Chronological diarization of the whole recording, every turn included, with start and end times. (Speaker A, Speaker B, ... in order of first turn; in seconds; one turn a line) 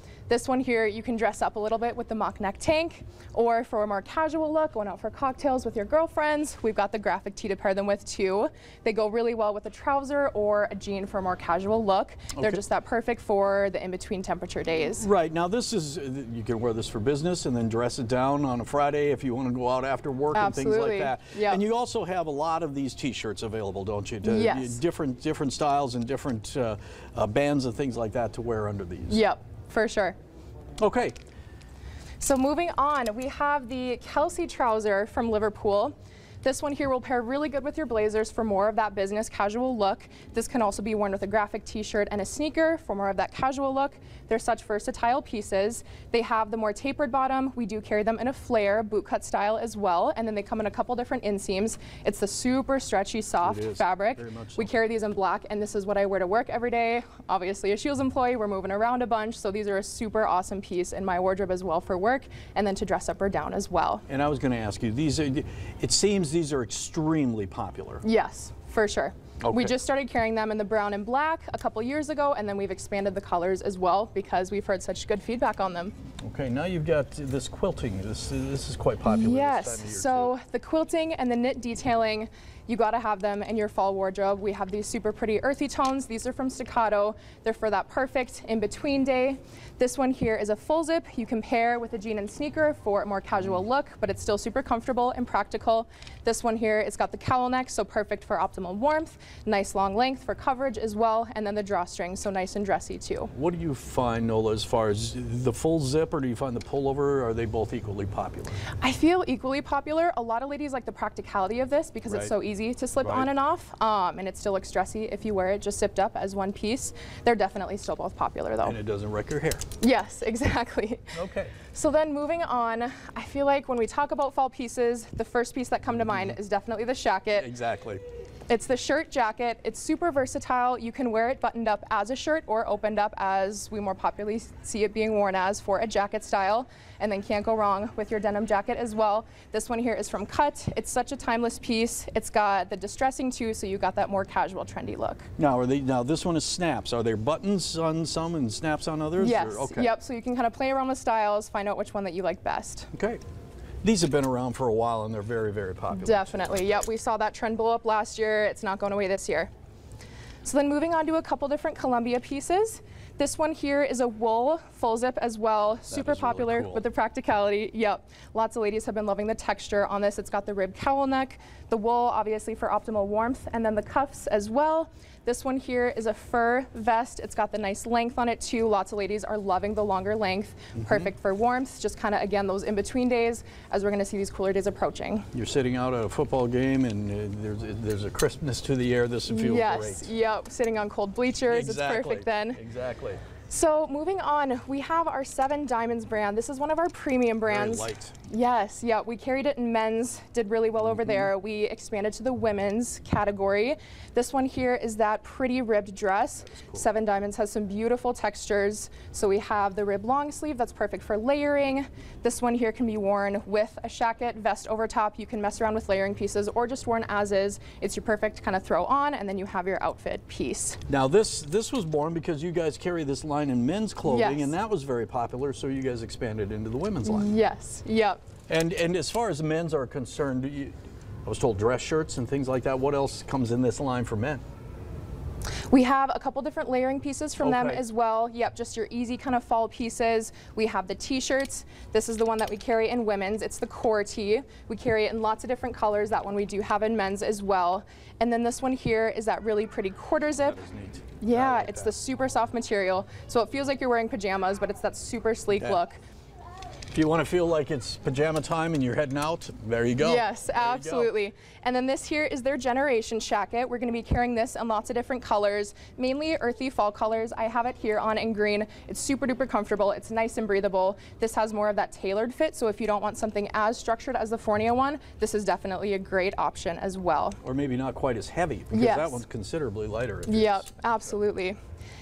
Speaker A: 0.3-15.1
Speaker B: 12.3-12.6
Speaker B: 14.9-29.2
Speaker A: 20.3-21.6
Speaker A: 24.2-24.8
Speaker A: 29.1-30.1
Speaker B: 30.8-31.1
Speaker A: 32.2-64.0
Speaker B: 53.4-54.7
Speaker B: 64.1-68.0
Speaker A: 68.0-75.9
Speaker B: 69.4-69.7
Speaker B: 76.2-80.3
Speaker A: 79.0-103.3
Speaker B: 103.3-108.6
Speaker A: 108.8-118.8
Speaker B: 113.0-113.3
Speaker B: 118.6-119.7
Speaker A: 119.8-121.2
Speaker B: 121.1-121.5
Speaker A: 121.7-127.5
Speaker B: 125.9-126.4
Speaker B: 127.3-128.0
Speaker A: 128.5-145.3
Speaker B: 145.4-149.9
Speaker A: 149.2-152.9
Speaker B: 152.9-153.2
Speaker B: 153.8-156.6
Speaker A: 155.9-159.5
Speaker A: 160.4-185.3
Speaker B: 165.9-166.8
Speaker B: 180.7-181.1
Speaker B: 185.3-190.1
Speaker A: 189.3-192.6
Speaker B: 191.5-193.2
Speaker A: 193.5-220.8
Speaker B: 197.5-198.1
Speaker B: 200.8-201.3
Speaker B: 206.4-206.8
Speaker B: 220.9-227.3
Speaker A: 224.0-224.5
Speaker A: 227.0-228.2
Speaker B: 228.5-234.4
Speaker A: 235.7-250.6
Speaker B: 237.4-237.8
Speaker B: 250.4-251.9
Speaker A: 251.2-256.0
Speaker B: 255.5-255.8
Speaker B: 256.9-261.1
Speaker A: 260.0-277.4
Speaker B: 277.4-280.7
Speaker A: 278.7-279.2
Speaker A: 280.3-281.6